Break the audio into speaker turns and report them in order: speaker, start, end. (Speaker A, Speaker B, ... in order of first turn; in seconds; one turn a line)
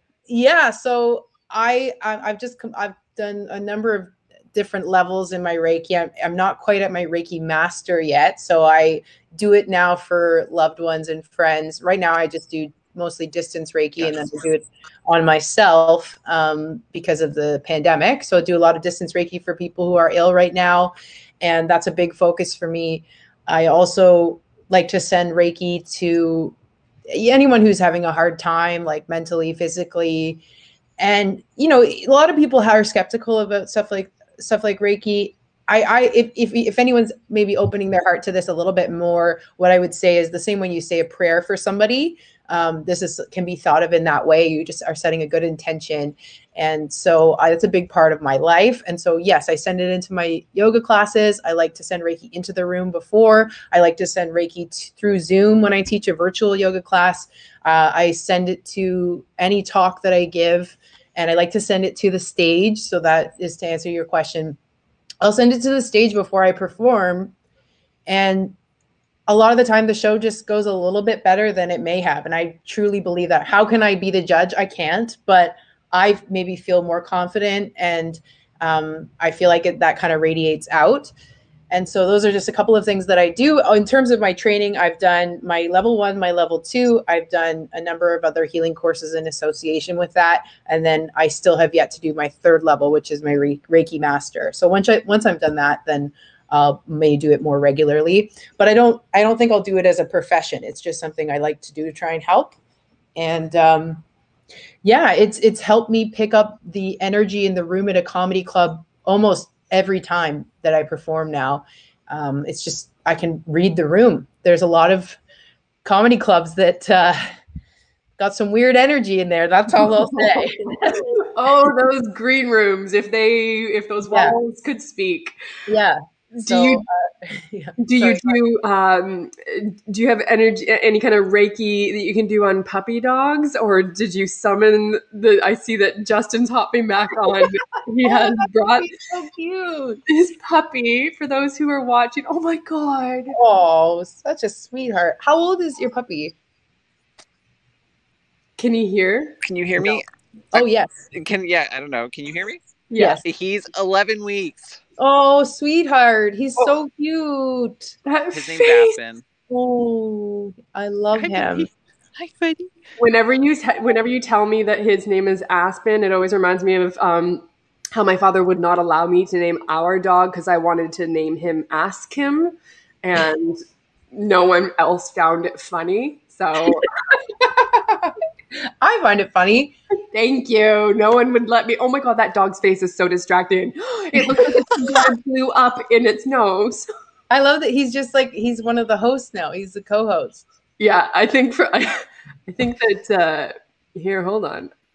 Speaker A: 0.3-26.5
Speaker A: 27.1-30.4
Speaker A: 31.0-64.6
Speaker A: 65.2-67.3
Speaker A: 68.1-68.5
Speaker A: 69.3-81.1
Speaker A: 81.7-102.5
Speaker A: 103.2-104.0
Speaker A: 104.8-115.2
Speaker A: 115.8-117.2
Speaker A: 118.2-121.1
Speaker B: 121.0-125.3
Speaker A: 124.1-124.3
Speaker A: 125.7-128.4
Speaker B: 126.3-126.8
Speaker B: 127.8-138.9
Speaker A: 138.0-140.0
Speaker B: 140.1-143.4
Speaker A: 143.3-146.3
Speaker B: 148.6-149.4
Speaker C: 149.4-150.0
Speaker A: 150.5-151.0
Speaker C: 150.5-154.8
Speaker B: 152.9-153.2
Speaker A: 155.0-157.9
Speaker B: 158.1-158.9
Speaker C: 158.3-159.2
Speaker A: 159.5-161.7
Speaker C: 161.2-162.7
Speaker B: 163.0-173.6
Speaker B: 174.1-176.8
Speaker A: 177.4-178.1
Speaker A: 178.8-179.7
Speaker B: 180.1-186.9
Speaker A: 187.3-190.4
Speaker B: 190.8-194.7